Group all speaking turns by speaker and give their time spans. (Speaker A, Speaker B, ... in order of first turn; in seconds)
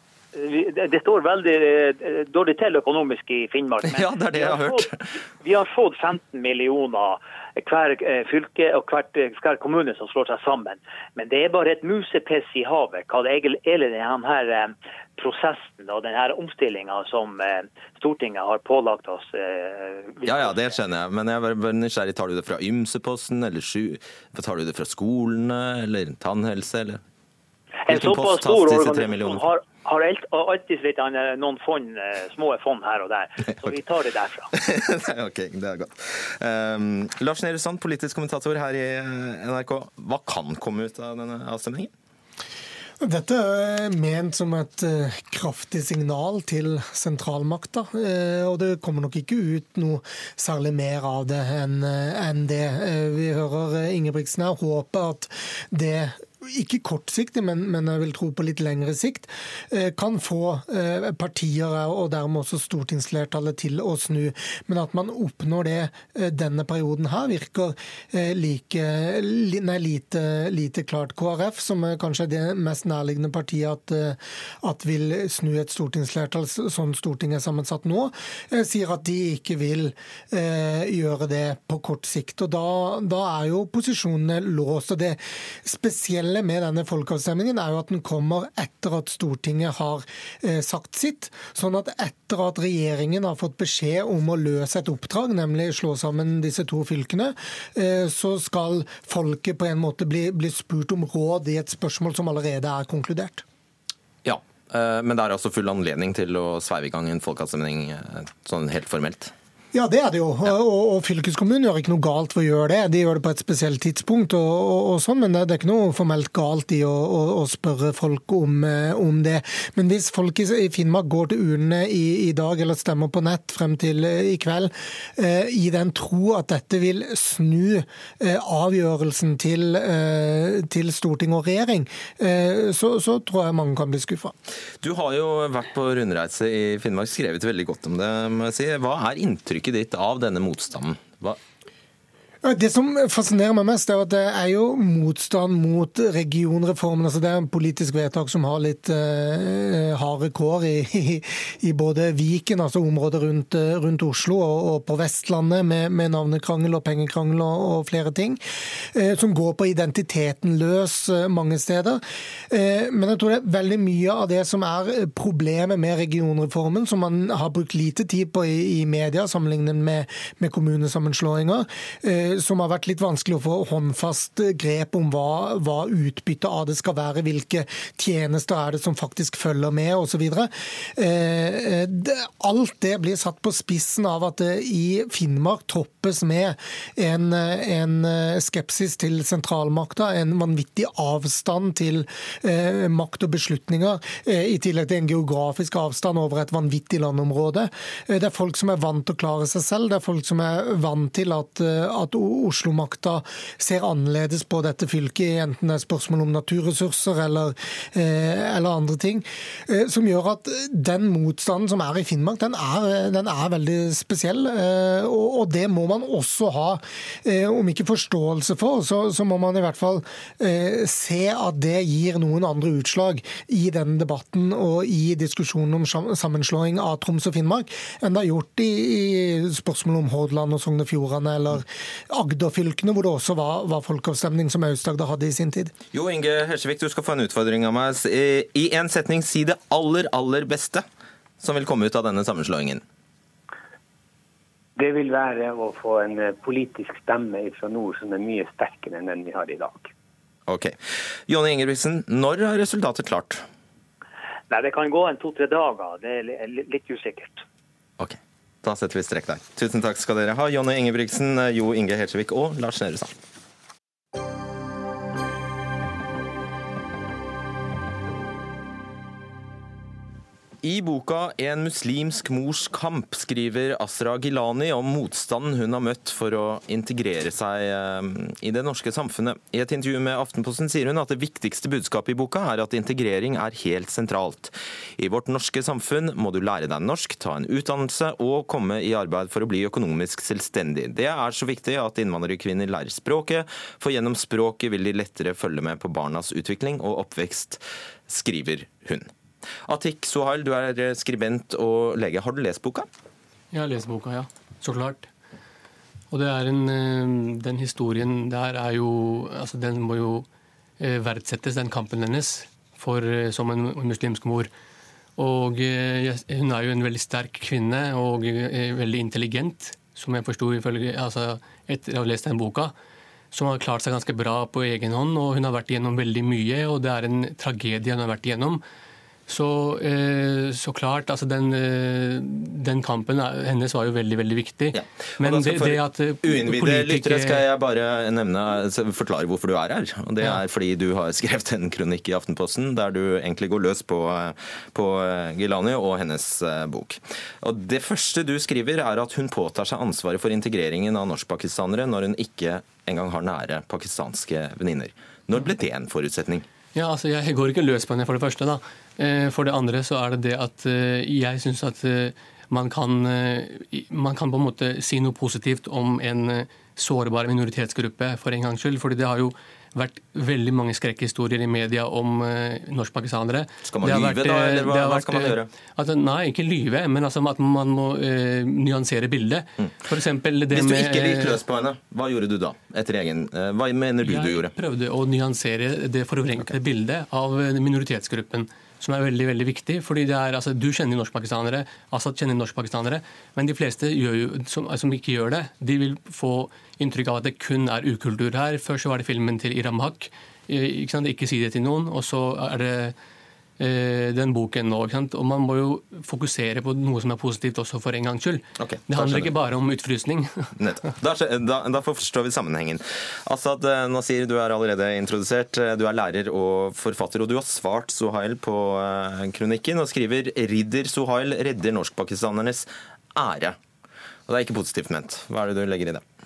Speaker A: 0.3-20.7, 27.8-34.5, 254.5-257.4
Speaker B: 3.9-5.0, 20.2-27.0, 27.9-29.4, 34.5-41.9, 104.2-109.3, 134.8-141.4, 235.9-240.8, 241.4-242.8, 250.5-253.4, 258.0-263.1, 270.6-299.1, 299.6-302.9, 334.7-356.4, 373.7-375.5, 380.5-384.5, 408.6-409.3, 410.6-423.6, 424.3-426.0
Speaker C: 43.0-103.4, 109.7-134.3, 142.4-158.4, 158.9-235.7
Speaker D: 244.8-249.9
Speaker E: 303.5-305.1, 306.1-310.2, 310.8-314.5, 315.2-322.7, 323.3-328.6, 329.3-337.4, 356.7-381.4, 384.0-402.9, 403.6-410.5